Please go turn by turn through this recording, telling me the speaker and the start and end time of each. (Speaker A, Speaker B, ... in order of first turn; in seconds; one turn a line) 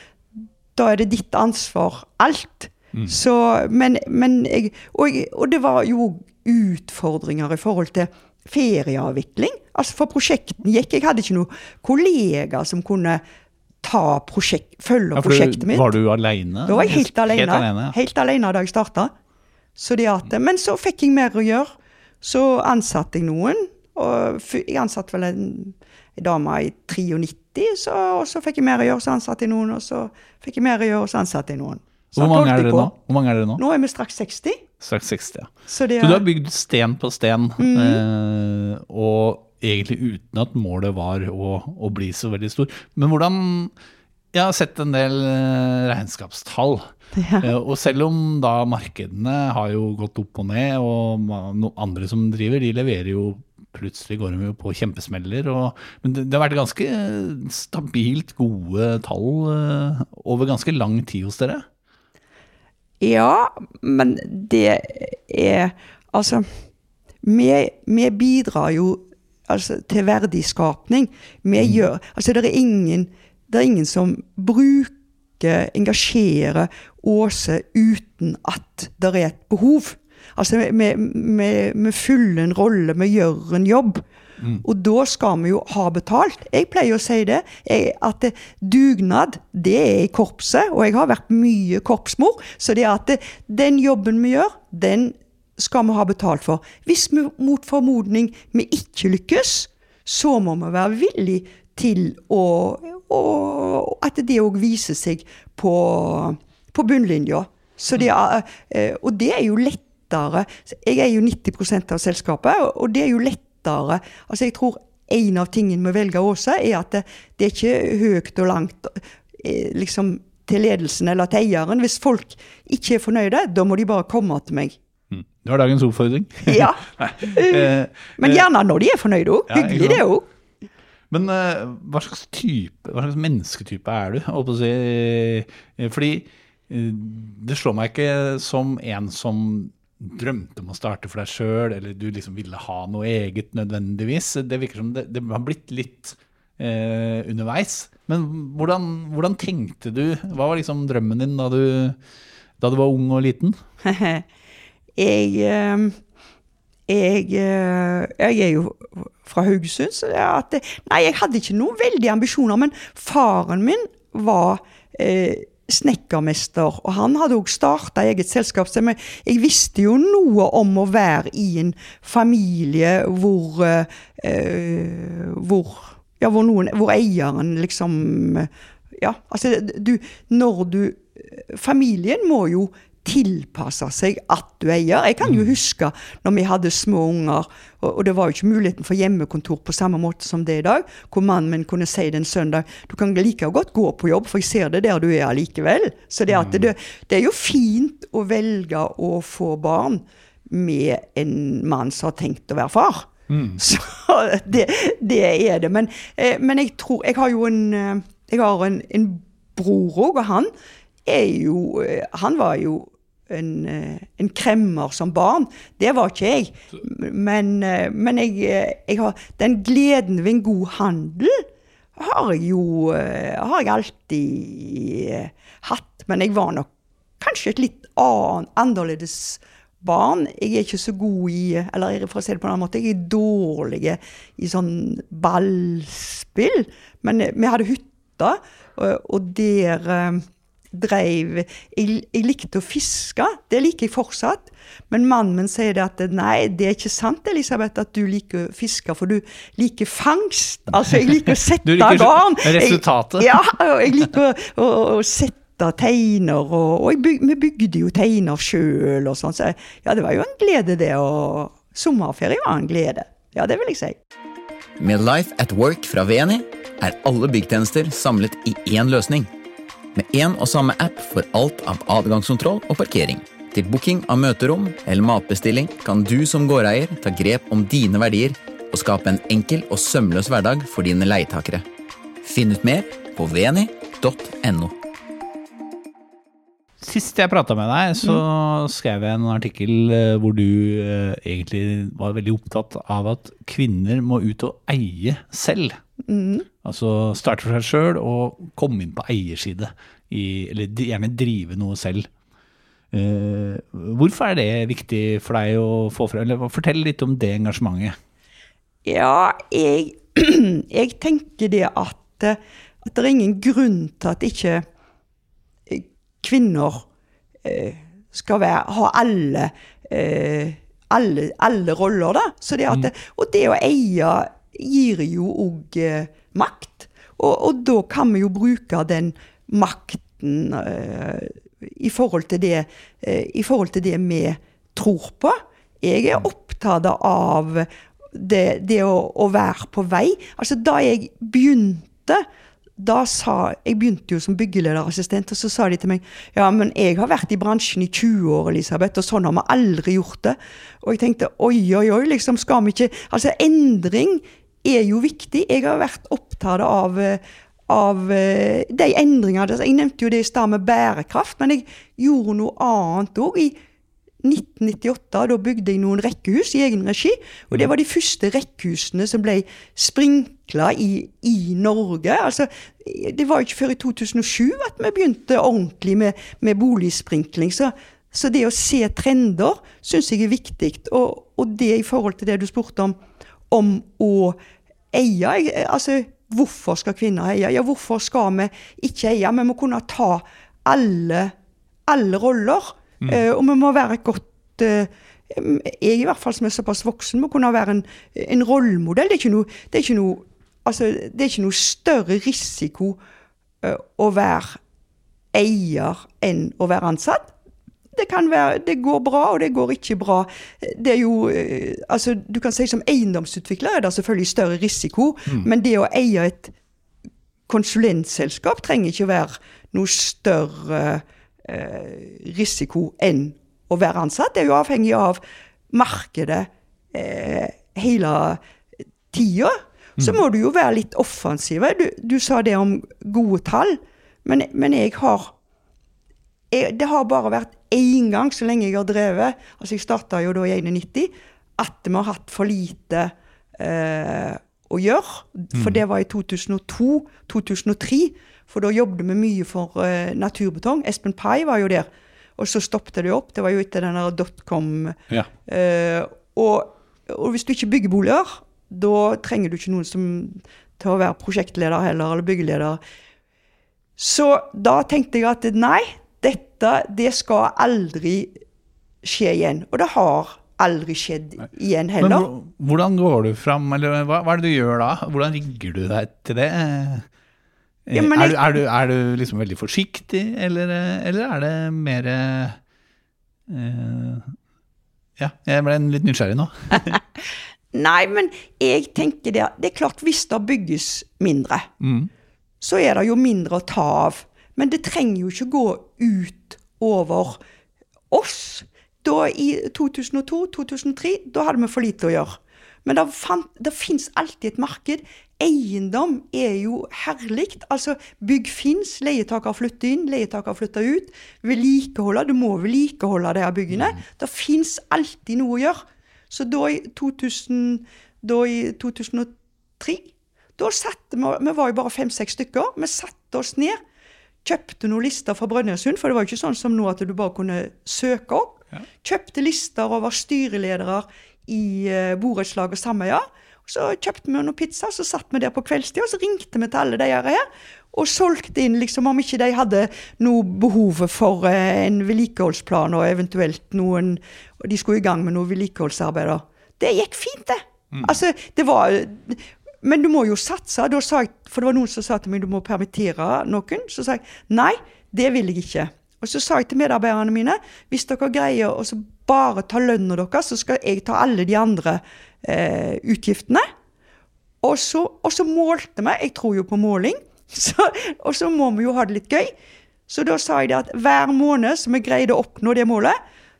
Speaker A: 0.4-13.2
Speaker A: 13.8-15.9
Speaker B: 15.2-17.9
Speaker A: 16.7-19.1
Speaker A: 19.8-21.7
Speaker A: 22.2-32.9
Speaker B: 32.1-33.6
Speaker A: 33.6-34.6
Speaker B: 34.8-43.7
Speaker A: 35.7-36.2
Speaker A: 37.6-38.0
Speaker B: 44.3-46.9
Speaker A: 47.1-47.5
Speaker B: 47.4-61.6
Speaker A: 63.0-66.5
Speaker A: 67.2-84.0
Speaker A: 84.6-124.8
Speaker B: 125.1-128.4
Speaker A: 126.5-130.2
Speaker B: 129.5-130.0
Speaker B: 131.1-152.0
Speaker B: 152.6-153.6
Speaker A: 153.8-154.2
Speaker A: 155.0-156.0
Speaker A: 156.9-210.5
Speaker B: 185.2-185.5
Speaker B: 196.3-196.7
Speaker B: 203.3-203.6
Speaker A: 211.1-221.4
Speaker A: 222.0-226.7
Speaker A: 227.2-264.0
Speaker B: 251.0-253.3
Speaker C: 264.8-269.3
Speaker C: 269.9-281.6
Speaker C: 282.2-284.7
Speaker B: 286.8-295.8
Speaker A: 296.1-296.5
Speaker B: 296.6-302.1
Speaker B: 302.9-307.9
Speaker A: 308.9-314.6
Speaker A: 315.7-316.8
Speaker A: 317.4-342.2
Speaker A: 342.8-363.5
Speaker A: 364.2-383.0
Speaker A: 383.5-384.4
Speaker A: 384.9-391.3
Speaker A: 391.9-403.0
Speaker A: 403.6-404.6
Speaker A: 405.3-407.3
Speaker A: 407.9-416.5
Speaker A: 417.5-425.2
Speaker A: 425.7-428.4
Speaker A: 429.1-435.3
Speaker A: 436.5-462.8
Speaker A: 464.0-468.3
Speaker A: 469.0-472.3
Speaker B: 472.0-477.1
Speaker B: 477.9-482.6
Speaker A: 477.9-478.5
Speaker B: 483.5-484.4
Speaker B: 485.2-487.0
Speaker A: 487.7-491.7
Speaker B: 491.8-492.1
Speaker A: 492.6-497.4
Speaker A: 498.1-523.8
Speaker B: 513.7-514.0
Speaker A: 524.4-563.6
Speaker A: 564.6-569.5
Speaker A: 570.1-573.2